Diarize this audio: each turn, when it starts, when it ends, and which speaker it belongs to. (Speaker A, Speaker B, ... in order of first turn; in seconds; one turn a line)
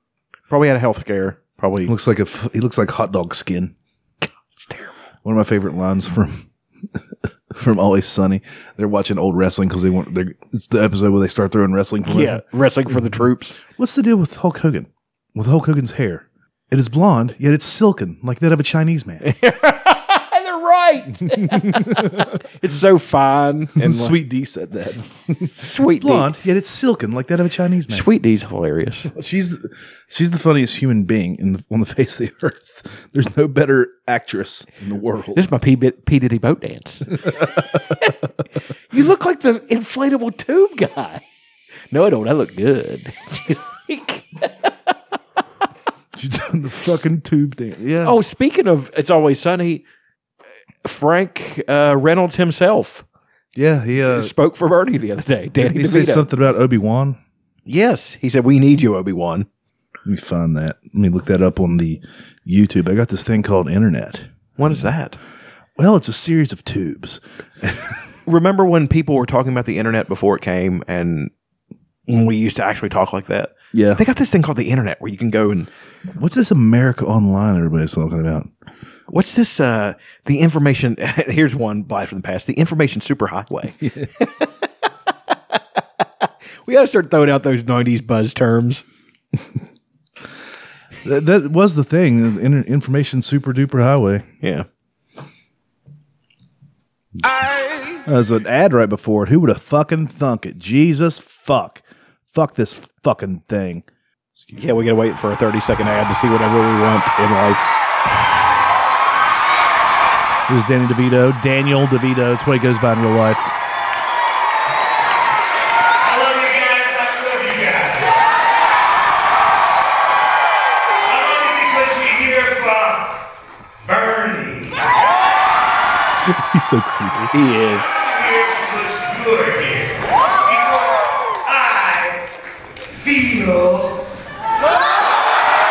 Speaker A: 0.5-1.9
Speaker B: 1.9-3.7
Speaker A: 4.5-4.9
Speaker B: 5.2-6.5
Speaker B: 7.5-12.4
Speaker A: 12.1-13.6
Speaker B: 13.7-19.2
Speaker A: 19.2-24.2
Speaker B: 21.3-22.4
Speaker B: 23.8-28.1
Speaker A: 25.5-26.3
Speaker A: 27.9-29.1
Speaker B: 29.1-35.5
Speaker A: 35.4-37.4
Speaker B: 37.2-37.9
Speaker A: 38.9-41.2
Speaker A: 41.9-44.9
Speaker B: 46.1-48.2
Speaker A: 48.0-49.8
Speaker A: 50.8-53.0
Speaker B: 53.5-54.3
Speaker A: 54.0-56.3
Speaker B: 55.6-57.2
Speaker A: 57.7-59.5
Speaker B: 60.1-64.3
Speaker A: 64.6-65.2
Speaker B: 65.8-68.0
Speaker A: 68.3-71.3
Speaker A: 72.1-75.7
Speaker B: 73.7-74.0
Speaker B: 76.1-78.5
Speaker A: 79.1-84.6
Speaker A: 85.5-86.0
Speaker A: 86.7-88.8
Speaker B: 91.0-94.3
Speaker A: 94.4-94.7
Speaker B: 98.0-104.6
Speaker A: 104.5-107.7
Speaker B: 110.5-113.5
Speaker C: 116.0-118.2
Speaker C: 121.0-123.2
Speaker C: 123.8-124.9
Speaker B: 126.2-127.4
Speaker A: 127.3-127.9
Speaker C: 127.7-132.2
Speaker C: 132.8-134.0